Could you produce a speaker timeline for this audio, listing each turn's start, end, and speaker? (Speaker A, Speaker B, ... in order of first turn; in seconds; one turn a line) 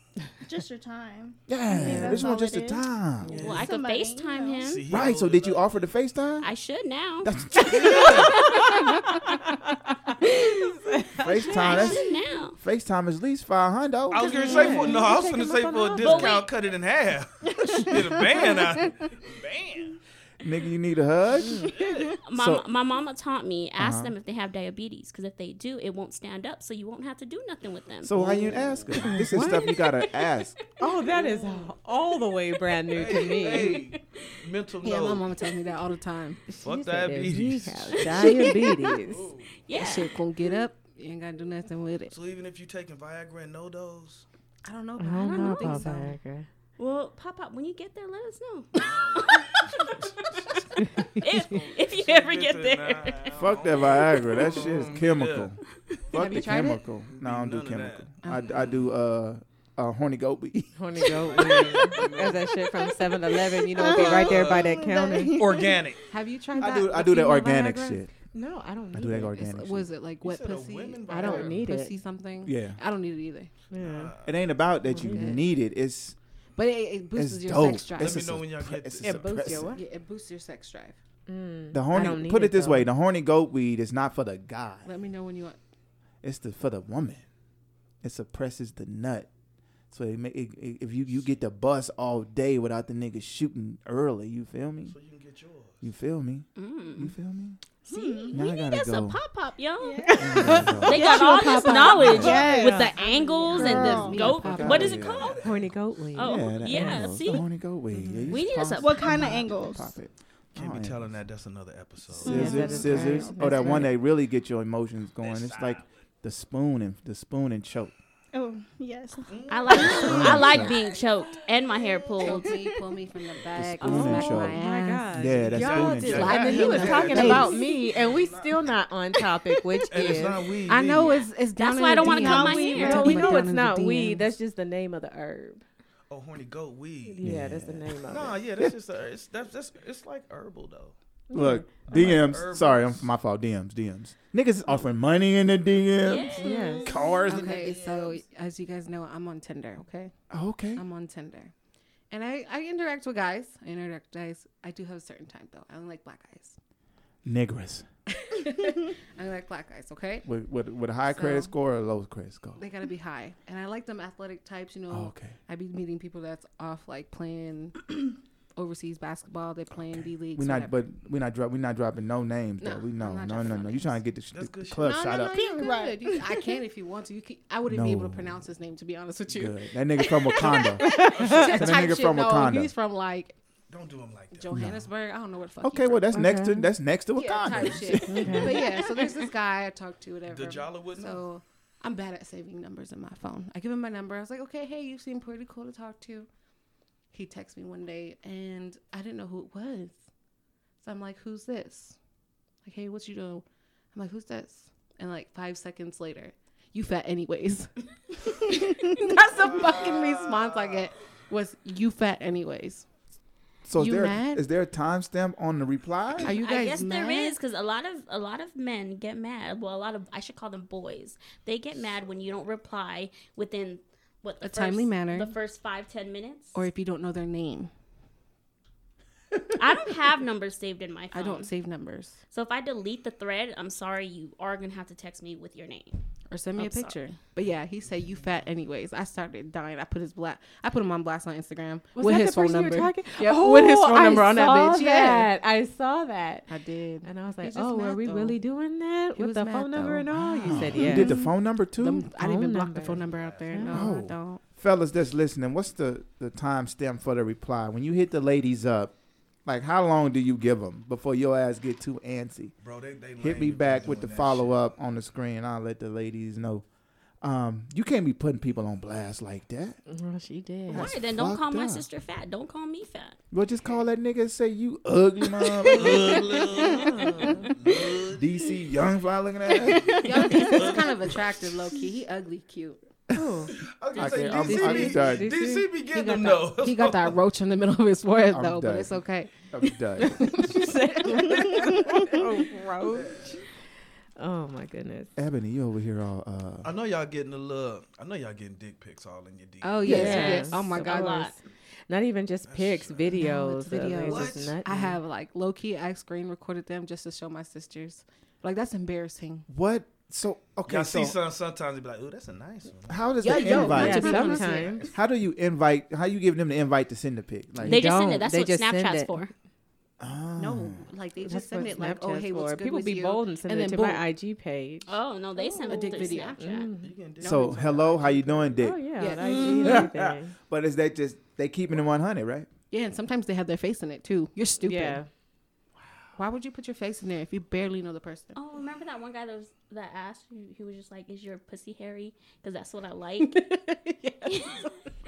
Speaker A: 0.4-2.8
Speaker B: 1.5-3.5
Speaker C: 1.7-2.3
Speaker C: 3.2-3.6
Speaker D: 3.4-4.9
Speaker A: 3.4-4.7
Speaker E: 4.7-5.9
Speaker B: 4.9-6.5
Speaker D: 6.4-9.2
Speaker B: 7.2-8.3
Speaker E: 7.8-8.3
Speaker C: 9.1-9.5
Speaker D: 10.2-10.5
Speaker C: 10.9-11.9
Speaker B: 11.2-12.1
Speaker D: 11.4-12.6
Speaker B: 12.6-14.5
Speaker E: 14.1-20.0
Speaker C: 14.2-16.4
Speaker D: 16.0-16.5
Speaker A: 17.9-18.7
Speaker B: 20.4-21.7
Speaker C: 21.4-21.7
Speaker E: 21.4-22.2
Speaker D: 22.2-28.6
Speaker B: 22.3-22.6
Speaker B: 23.8-24.1
Speaker B: 28.0-30.6
Speaker E: 28.2-28.8
Speaker C: 28.9-29.6
Speaker D: 29.6-30.4
Speaker C: 30.8-33.9
Speaker E: 32.9-35.3
Speaker D: 33.1-34.0
Speaker F: 34.8-36.4
Speaker C: 36.5-39.3
Speaker E: 36.6-38.2
Speaker D: 38.1-38.4
Speaker F: 38.2-38.5
Speaker E: 39.0-39.5
Speaker D: 39.6-40.1
Speaker F: 39.7-42.2
Speaker E: 42.1-44.2
Speaker F: 44.6-46.1
Speaker C: 45.0-46.5
Speaker D: 45.3-45.9
Speaker D: 46.8-50.6
Speaker E: 48.7-51.1
Speaker D: 51.1-53.4
Speaker E: 51.8-55.5
Speaker B: 53.3-61.4
Speaker F: 56.1-56.8
Speaker E: 57.0-58.9
Speaker C: 60.8-65.4
Speaker E: 61.0-62.7
Speaker E: 63.3-66.0
Speaker A: 63.8-65.7
Speaker F: 66.1-68.0
Speaker B: 66.6-68.1
Speaker C: 68.3-69.3
Speaker B: 68.9-69.9
Speaker F: 69.3-73.5
Speaker E: 70.2-71.7
Speaker C: 71.1-72.0
Speaker B: 72.4-72.8
Speaker C: 73.7-74.1
Speaker E: 73.7-74.6
Speaker B: 74.2-76.2
Speaker F: 74.9-75.4
Speaker C: 74.9-75.4
Speaker F: 76.5-78.3
Speaker B: 77.1-79.7
Speaker E: 78.0-79.5
Speaker C: 79.0-79.8
Speaker F: 79.7-81.0
Speaker C: 81.3-82.9
Speaker B: 81.7-84.9
Speaker F: 84.8-85.6
Speaker B: 86.2-87.2
Speaker B: 88.0-89.3
Speaker B: 89.9-94.9
Speaker E: 94.8-95.9
Speaker B: 95.8-97.6
Speaker D: 96.6-97.1
Speaker D: 97.8-105.5
Speaker A: 97.8-98.4
Speaker B: 98.3-99.2
Speaker A: 99.8-102.8
Speaker B: 100.2-101.1
Speaker B: 101.9-102.4
Speaker C: 102.2-103.0
Speaker F: 102.2-105.1
Speaker A: 103.5-104.3
Speaker B: 103.6-105.4
Speaker E: 104.8-105.8
Speaker C: 105.4-107.4
Speaker D: 106.1-107.4
Speaker B: 106.2-111.1
Speaker C: 107.9-108.4
Speaker D: 108.3-109.2
Speaker A: 108.7-110.0
Speaker E: 110.5-113.0
Speaker B: 112.2-117.9
Speaker A: 112.2-113.8
Speaker C: 112.2-113.9
Speaker E: 115.2-115.8
Speaker A: 118.3-120.2
Speaker E: 119.3-120.9
Speaker D: 119.5-122.5
Speaker B: 119.8-120.7
Speaker A: 122.0-122.7
Speaker F: 122.2-125.1
Speaker B: 123.5-126.4
Speaker D: 123.8-124.5
Speaker C: 124.2-130.4
Speaker E: 125.5-128.7
Speaker F: 125.8-127.6
Speaker E: 129.8-131.3
Speaker F: 130.6-134.3
Speaker D: 131.5-133.2
Speaker A: 132.0-133.3
Speaker C: 132.7-135.6
Speaker E: 136.1-137.3
Speaker C: 137.1-138.4
Speaker B: 137.2-137.9
Speaker E: 138.1-140.9
Speaker C: 141.3-141.7
Speaker B: 141.3-147.6
Speaker E: 141.8-143.1
Speaker D: 146.0-146.7
Speaker C: 146.4-146.9
Speaker E: 147.1-148.2
Speaker F: 147.2-150.1
Speaker B: 150.3-150.8
Speaker F: 150.8-151.5
Speaker F: 152.1-156.6
Speaker B: 157.2-157.8
Speaker F: 158.2-160.3
Speaker B: 160.2-162.6
Speaker F: 161.1-161.5
Speaker F: 162.6-170.8
Speaker B: 164.9-165.4
Speaker B: 170.3-175.4
Speaker F: 172.6-174.0
Speaker E: 174.3-174.9
Speaker F: 174.8-183.3
Speaker A: 175.1-176.5
Speaker B: 177.7-178.4
Speaker B: 179.3-182.7
Speaker E: 180.4-181.9
Speaker E: 183.7-184.5
Speaker F: 184.3-186.2
Speaker B: 184.5-184.8
Speaker B: 185.6-188.7
Speaker C: 186.1-186.7
Speaker F: 187.2-196.3
Speaker C: 188.1-188.6
Speaker E: 190.3-191.2
Speaker F: 197.1-200.0
Speaker F: 200.8-202.0
Speaker F: 202.6-212.8
Speaker B: 213.6-216.3
Speaker F: 213.8-214.4
Speaker F: 216.2-217.4
Speaker D: 216.3-226.6
Speaker F: 224.4-225.3
Speaker F: 226.5-227.7
Speaker D: 229.4-231.5
Speaker F: 231.1-232.2
Speaker D: 232.3-235.9
Speaker F: 236.3-245.3
Speaker D: 236.6-236.9
Speaker C: 241.9-246.5
Speaker F: 246.5-248.4
Speaker C: 247.0-251.2
Speaker F: 249.1-254.4
Speaker B: 250.1-252.1
Speaker C: 252.2-254.0
Speaker E: 252.8-253.6
Speaker B: 253.7-258.9
Speaker B: 259.4-262.5
Speaker E: 262.6-264.6
Speaker B: 263.2-266.6
Speaker B: 267.2-269.8
Speaker C: 269.9-270.9
Speaker B: 270.7-271.9
Speaker D: 270.7-273.2
Speaker B: 273.3-276.3
Speaker E: 275.8-278.5
Speaker C: 276.9-277.4
Speaker B: 278.1-280.3
Speaker E: 279.6-281.6
Speaker F: 280.0-282.8
Speaker C: 283.1-283.5
Speaker E: 283.6-287.2
Speaker D: 283.9-284.5
Speaker B: 283.9-285.3
Speaker C: 284.4-285.7
Speaker F: 285.8-291.2
Speaker B: 288.3-290.4
Speaker C: 290.5-293.4
Speaker E: 292.9-293.4
Speaker C: 294.2-295.1
Speaker B: 295.1-296.7
Speaker E: 296.6-300.4
Speaker F: 299.6-301.3
Speaker C: 299.8-301.3
Speaker D: 299.9-301.3
Speaker C: 301.9-305.0
Speaker E: 302.5-303.2
Speaker F: 303.1-309.4
Speaker E: 304.0-304.6
Speaker B: 309.5-311.1
Speaker E: 310.7-313.6
Speaker B: 312.9-314.4
Speaker F: 313.2-314.9
Speaker C: 313.4-314.9
Speaker B: 314.9-317.9
Speaker C: 317.6-319.2
Speaker D: 317.6-319.3
Speaker B: 320.0-320.8
Speaker F: 320.4-324.0
Speaker C: 321.2-326.9
Speaker D: 324.9-326.7
Speaker F: 325.6-329.9
Speaker E: 326.2-327.6
Speaker B: 327.2-328.9
Speaker C: 328.6-330.3
Speaker B: 329.6-332.5
Speaker F: 332.7-335.0
Speaker C: 334.6-335.1
Speaker F: 336.1-338.4
Speaker D: 338.3-343.5
Speaker C: 343.5-344.5
Speaker D: 344.2-344.7